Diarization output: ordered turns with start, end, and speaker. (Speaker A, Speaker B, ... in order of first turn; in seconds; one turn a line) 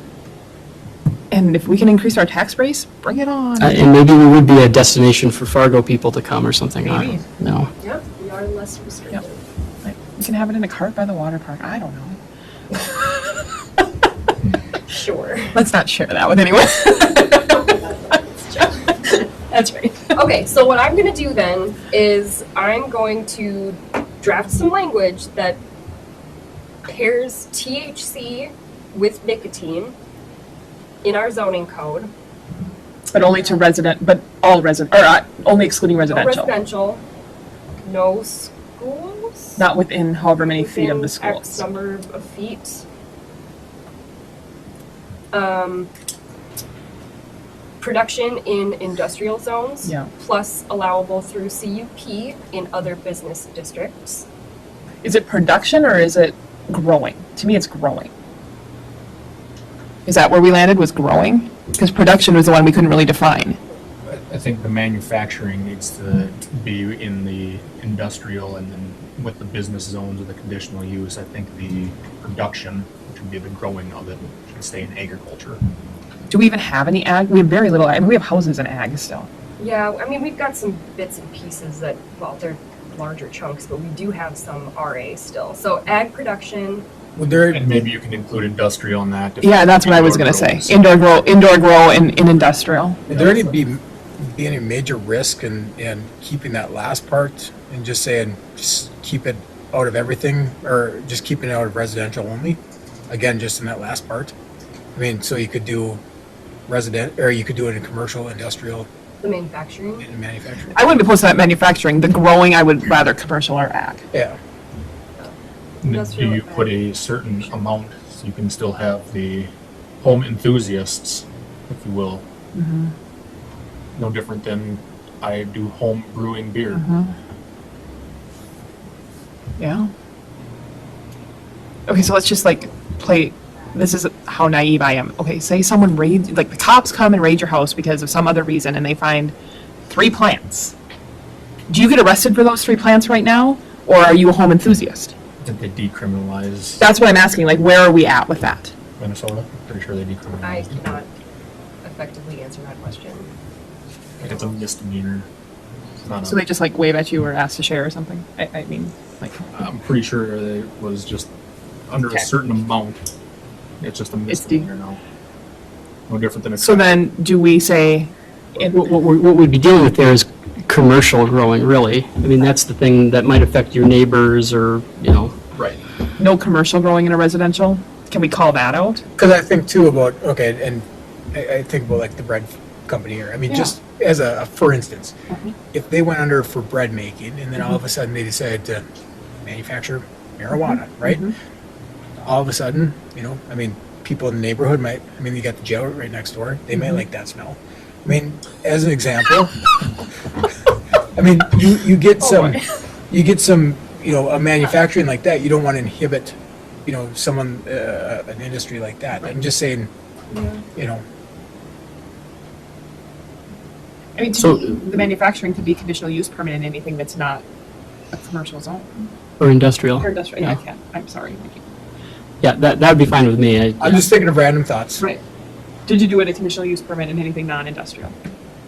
Speaker A: 1.3-3.9
Speaker B: 3.6-7.7
Speaker A: 6.8-7.2
Speaker C: 7.8-9.4
Speaker A: 9.8-12.2
Speaker A: 12.7-13.5
Speaker C: 14.9-15.6
Speaker A: 15.5-18.2
Speaker A: 18.9-20.2
Speaker C: 20.1-25.6
Speaker C: 26.9-30.0
Speaker C: 31.0-32.1
Speaker A: 33.1-36.5
Speaker C: 33.3-33.6
Speaker C: 36.1-37.0
Speaker C: 37.8-39.6
Speaker A: 39.6-41.7
Speaker C: 40.5-42.8
Speaker C: 45.3-45.9
Speaker C: 47.8-54.3
Speaker A: 49.8-50.1
Speaker A: 55.0-58.1
Speaker A: 60.1-63.6
Speaker D: 64.1-75.6
Speaker A: 76.3-79.3
Speaker C: 79.6-86.9
Speaker E: 87.2-87.7
Speaker D: 87.5-91.2
Speaker A: 89.4-93.0
Speaker E: 93.1-104.3
Speaker D: 93.1-93.4
Speaker E: 104.9-106.0
Speaker E: 106.7-108.9
Speaker C: 109.2-110.1
Speaker E: 110.0-110.8
Speaker A: 110.7-114.1
Speaker C: 115.2-116.8
Speaker D: 115.8-122.2
Speaker A: 122.5-122.9
Speaker D: 124.0-126.9
Speaker A: 126.7-127.1
Speaker A: 129.6-129.9
Speaker A: 131.9-139.3
Speaker A: 139.9-140.8
Speaker A: 141.7-145.1
Speaker D: 145.4-146.8
Speaker A: 146.8-148.7
Speaker D: 149.0-151.0
Speaker C: 150.4-151.1
Speaker C: 151.8-153.3
Speaker D: 154.2-155.3
Speaker D: 156.0-156.4
Speaker A: 156.2-159.4
Speaker D: 159.5-161.3
Speaker D: 161.9-163.0
Speaker D: 163.8-165.0
Speaker A: 164.3-164.7
Speaker D: 166.1-167.1
Speaker A: 166.6-168.8
Speaker B: 168.7-175.3
Speaker D: 175.6-175.8
Speaker A: 176.2-179.0
Speaker E: 179.2-185.1
Speaker E: 185.7-188.8
Speaker E: 189.4-191.3
Speaker A: 190.6-191.3
Speaker E: 192.2-199.6
Speaker A: 196.8-197.0
Speaker E: 201.2-209.9
Speaker A: 202.2-202.6
Speaker C: 210.3-210.6
Speaker E: 210.7-211.0
Speaker A: 214.2-217.4
Speaker B: 214.4-214.7
Speaker A: 218.1-219.1
Speaker B: 219.4-220.6
Speaker A: 220.0-221.7
Speaker B: 222.4-224.1
Speaker E: 223.8-225.0
Speaker A: 225.9-228.2